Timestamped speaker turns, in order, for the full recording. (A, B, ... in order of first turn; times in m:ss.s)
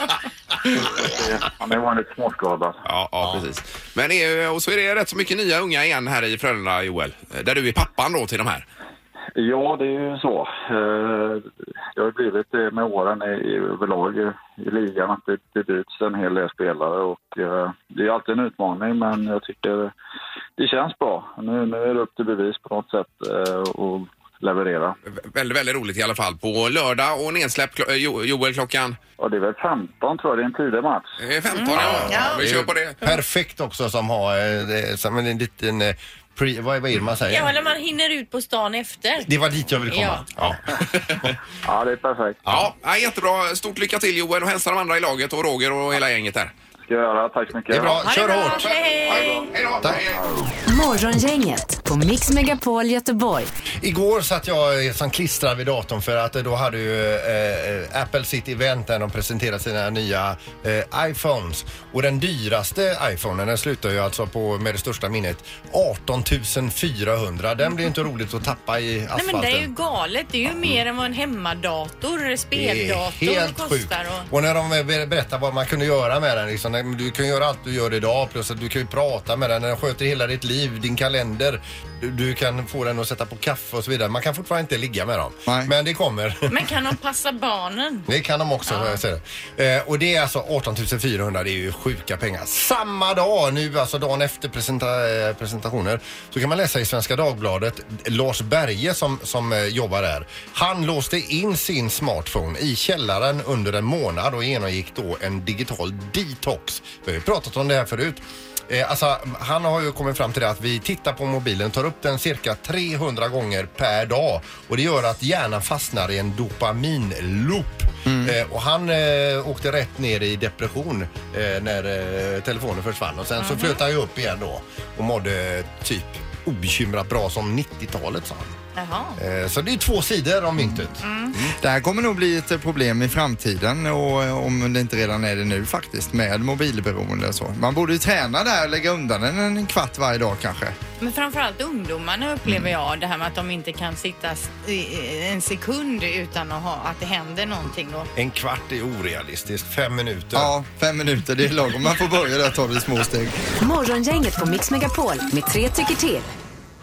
0:00.8-0:02.8 A
0:02.9-0:08.6 B
0:03.2-0:03.5 C
0:09.4-0:19.9 A
0:20.6-0:25.0 A
0:25.0-0:29.0 B
0:29.2-0:31.1 A
0:31.2-0:33.0 B
0:31.5-0:32.5 D
0:31.8-0:37.5 C
0:37.3-0:39.3 D
0:39.2-0:40.6 C
0:39.9-0:40.2 D
0:40.4-0:41.3 B
0:41.6-0:42.4 A
0:42.5-0:46.5 B
0:46.8-0:48.0 A
0:47.7-0:48.7 C
0:48.0-0:49.5 D
0:48.3-0:50.2 B
0:50.7-0:53.5 E
0:53.8-1:09.7 C
1:09.1-1:14.3 D
1:12.5-1:26.6 C
1:26.5-1:28.1 D
1:28.1-2:08.6 C
1:28.7-1:29.0 D
1:58.1-1:58.3 F
2:03.4-2:03.8 D
2:08.8-2:09.2 D
2:09.2-2:11.6 C
2:11.0-2:11.4 D
2:11.6-2:20.8 F
2:21.0-2:28.1 D
2:28.2-2:30.5 C
2:30.4-2:33.4 F
2:33.6-2:36.3 E